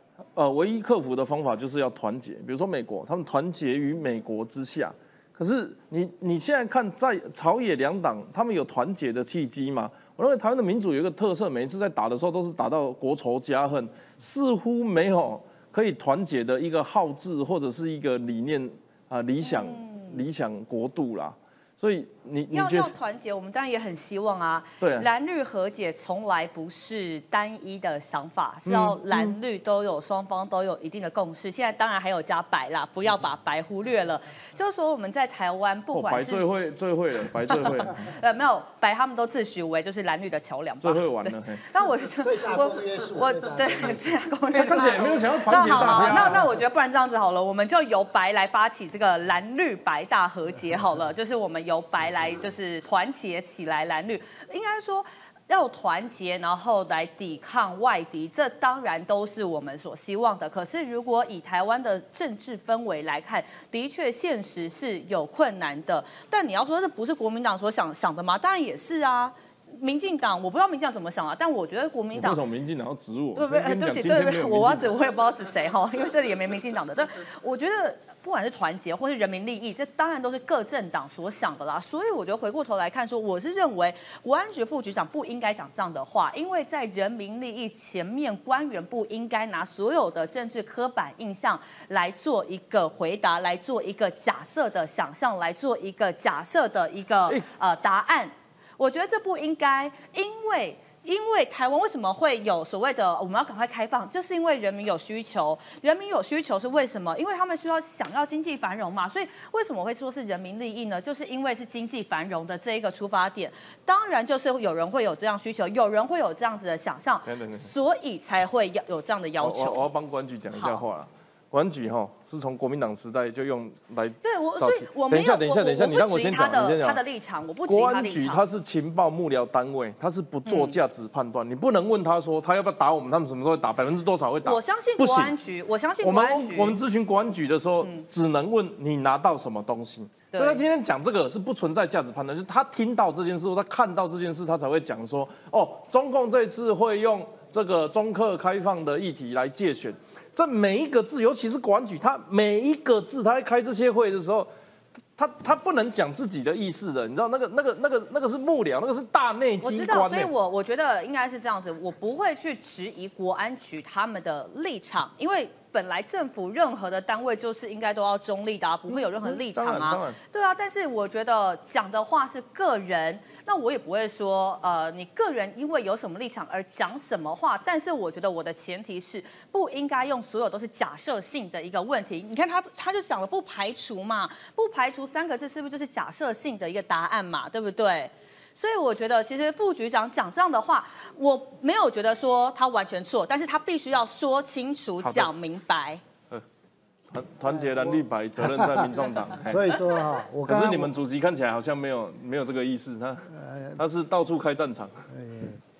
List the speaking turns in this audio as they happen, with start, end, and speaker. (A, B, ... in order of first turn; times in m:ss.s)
0:00.4-0:22.9 A
0:19.4-0:20.2 B
0:22.5-0:36.4 B
0:24.8-0:25.1 A
0:28.6-0:29.4 A
0:35.9-0:38.0 A
0:37.5-1:12.4 B
0:40.8-0:41.6 A
0:42.2-0:44.2 C
0:44.5-0:46.5 A
1:12.1-1:14.9 A
1:13.4-1:59.8 B
1:57.2-1:57.7 A
1:59.4-2:07.0 A
2:00.6-2:00.8 B
2:04.2-2:08.4 B
2:07.7-2:15.3 A
2:10.4-2:10.8 B
2:14.4-2:16.8 B
2:16.0-2:34.5 A
2:20.3-2:20.6 B
2:35.2-2:40.3 A
2:39.6-3:16.0 B
2:48.9-2:50.2 A
3:15.0-3:15.3 A
3:17.1-3:19.6 A
3:18.4-3:20.9 C
3:20.5-3:24.9 A
3:23.4-3:23.8 C
3:25.1-3:25.6 C